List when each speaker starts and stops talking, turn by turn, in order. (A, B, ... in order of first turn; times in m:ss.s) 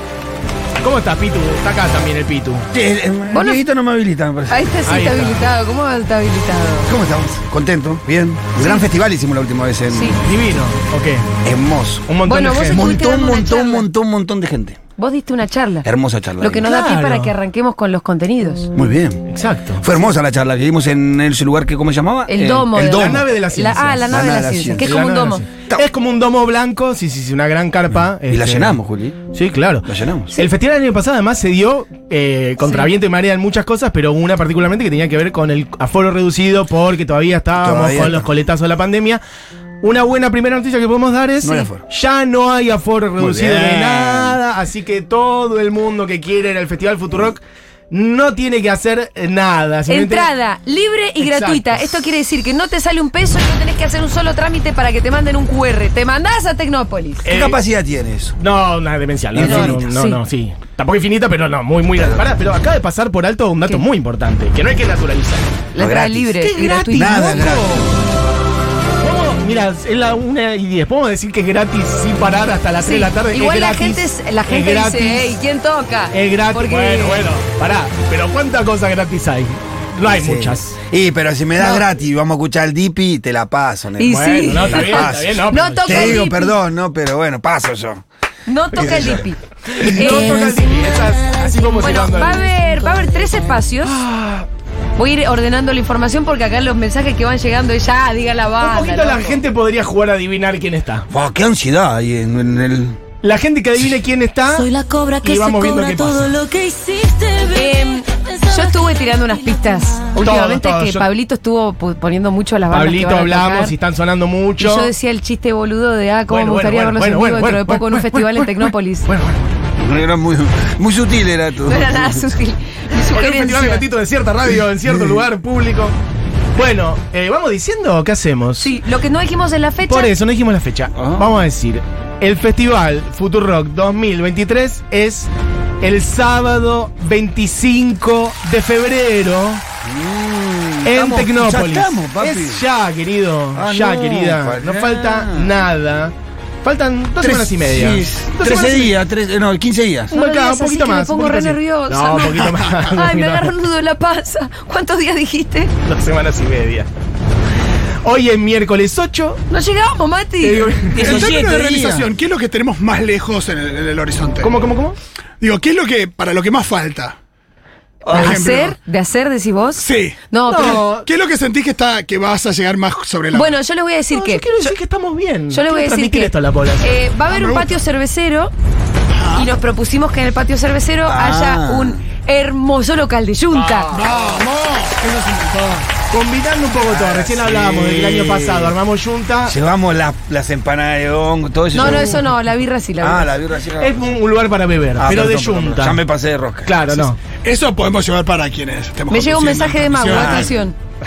0:00.8-0:02.6 A
0:02.7-0:04.6 B
0:03.3-0:03.6 C
0:04.5-0:06.9 C
0:04.8-0:05.5 A
0:06.9-0:10.2 B
0:08.6-0:08.8 C
0:10.2-0:11.3 A
0:11.4-0:12.1 B
0:12.1-0:12.8 A
0:12.2-0:13.8 C
0:12.7-0:14.8 B
0:15.0-0:15.9 C
0:15.8-0:16.6 B
0:16.4-0:18.7 C
0:16.6-0:17.3 A
0:18.7-0:19.2 B
0:19.3-0:20.1 A
0:19.8-0:23.3 B
0:22.3-0:25.4 C
0:22.7-0:24.2 A
0:24.0-0:24.9 B
0:24.8-0:28.8 A
0:28.3-0:29.2 B
0:29.3-0:39.2 A
0:29.8-0:30.3 B
0:32.6-0:32.9 C
0:37.6-0:38.3 B
0:39.8-0:50.3 A
0:41.4-0:41.8 B
0:43.2-0:44.4 B
0:49.9-0:57.3 C
0:51.2-0:52.0 A
0:57.2-0:57.6 A
0:57.3-0:58.4 B
0:58.4-1:05.4 A
0:59.3-0:59.8 B
0:59.4-1:00.2 C
1:02.0-1:02.2 B
1:05.7-1:07.4 C
1:05.8-1:06.4 B
1:06.4-1:07.9 A
1:06.9-1:07.9 B
1:09.0-1:15.4 A
1:12.8-1:17.2 C
1:16.1-1:20.8 A
1:20.0-1:28.0 B
1:24.0-1:26.6 C
1:24.1-1:26.3 A
1:28.5-1:30.6 C
1:28.7-1:29.2 B
1:28.7-1:29.2 A
1:29.7-1:32.5 A
1:30.0-1:31.3 D
1:31.8-1:34.0 C
1:32.8-1:33.3 D
1:33.8-1:34.5 A
1:35.0-1:39.4 C
1:38.6-1:41.1 A
1:41.1-1:43.0 B
1:43.2-1:44.7 A
1:44.5-1:48.9 D
1:45.2-1:46.3 A
1:47.5-1:53.7 C
1:50.2-1:51.0 A
1:52.7-1:54.9 A
1:54.6-1:59.1 C
1:56.3-1:59.5 A
1:59.8-2:02.3 B
2:01.6-2:03.8 C
2:03.1-2:05.9 A
2:06.6-2:08.7 A
2:08.6-2:10.1 C
2:09.8-2:15.3 A
2:11.0-2:11.3 B
2:15.8-2:19.6 A
2:19.8-2:22.6 B
2:20.8-2:28.9 A
2:23.5-2:25.5 B
2:27.2-2:30.1 B
2:30.1-2:33.5 A
2:30.1-2:35.7 C
2:35.8-2:36.9 A
2:38.0-2:39.4 A
2:39.5-2:40.9 C
2:40.4-2:41.3 A
2:40.9-2:42.1 B
2:41.0-2:44.5 E
2:44.4-2:45.0 A
2:45.4-2:47.2 E
2:48.0-2:48.8 E
2:48.1-2:48.4 A
2:48.1-2:50.8 C
2:49.8-2:53.5 E
2:50.5-2:51.1 A
2:53.3-2:54.7 C
2:54.1-2:57.0 A
2:55.5-2:58.5 C
2:57.3-2:57.8 E
2:59.1-2:59.5 E
2:59.3-3:03.9 C
3:01.0-3:02.0 B
3:03.5-3:04.4 A
3:03.9-3:05.9 E
3:06.1-3:09.6 A
3:06.8-3:08.7 B
3:09.4-3:12.2 B
3:11.7-3:13.3 C
3:11.8-3:12.1 A
3:13.0-3:14.1 B
3:13.8-3:16.0 A
3:15.0-3:17.1 B
3:16.6-3:17.2 A
3:17.4-3:20.5 E
3:19.1-3:20.8 C
3:20.0-3:20.5 B